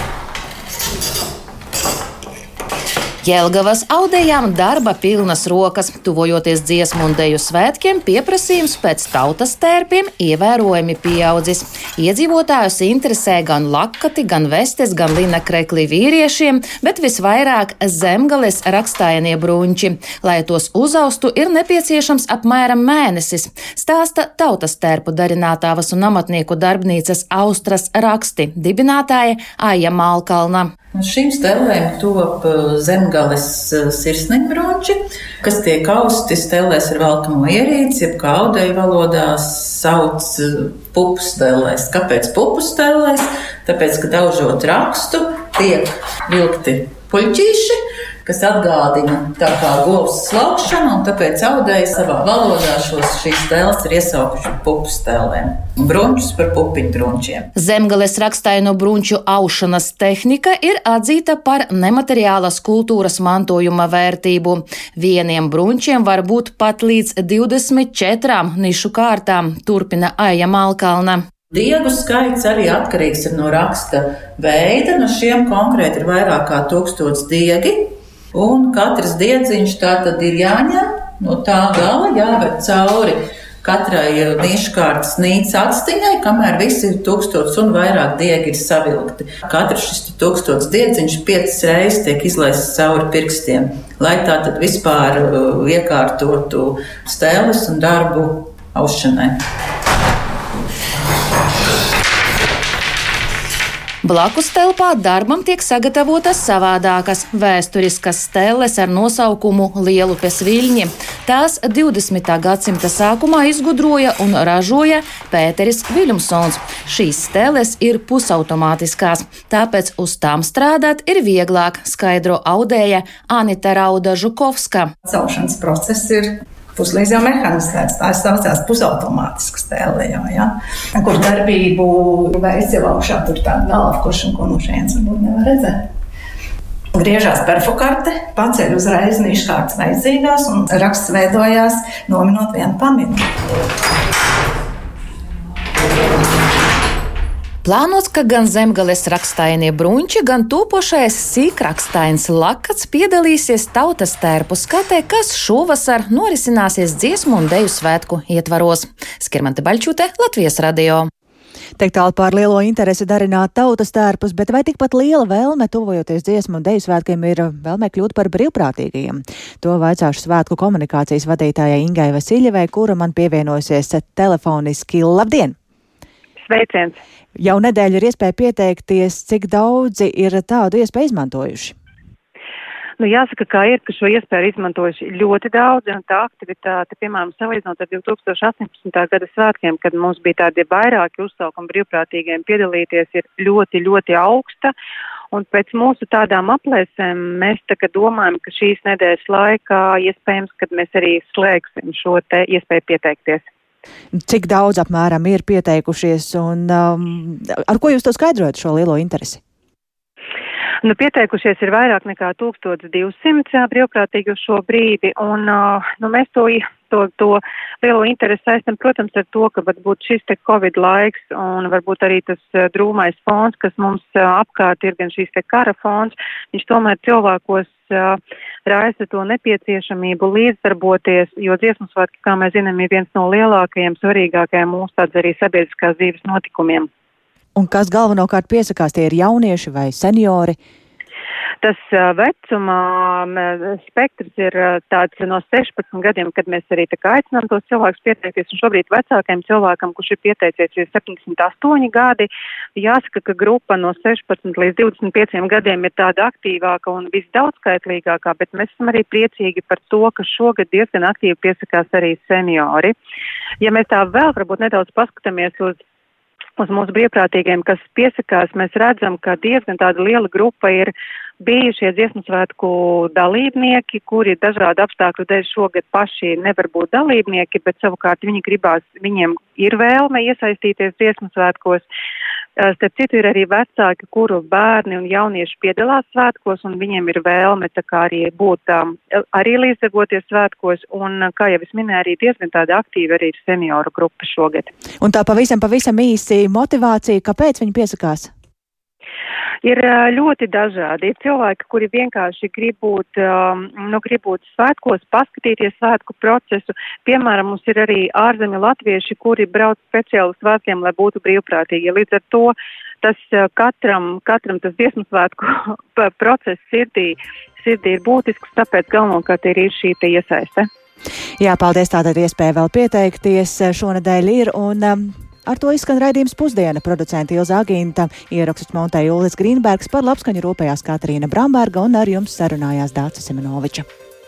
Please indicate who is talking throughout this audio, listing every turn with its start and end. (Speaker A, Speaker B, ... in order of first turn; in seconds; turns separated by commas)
Speaker A: 3.2-30.7, Speaker B: 30.9-57.5, Speaker A: 57.5-71.2, Speaker B: 71.5-99.4, Speaker A: 104.0-124.9, Speaker C: 125.0-135.9, Speaker C: 136.9-143.3, Speaker A: 147.6-161.1, Speaker D: 161.8-175.6, Speaker E: 176.4-177.0, Speaker D: 177.3-181.8, Speaker E: 183.0-194.7, Speaker E: 195.3-203.4, Speaker D: 204.1-209.4, Speaker E: 210.8-236.9, Speaker D: 237.6-240.6, Speaker E: 241.6-262.9, Speaker E: 263.6-265.8, Speaker E: 266.6-281.9, Speaker E: 282.6-294.7, Speaker D: 295.0-298.3, Speaker E: 299.6-320.7, Speaker D: 321.4-333.9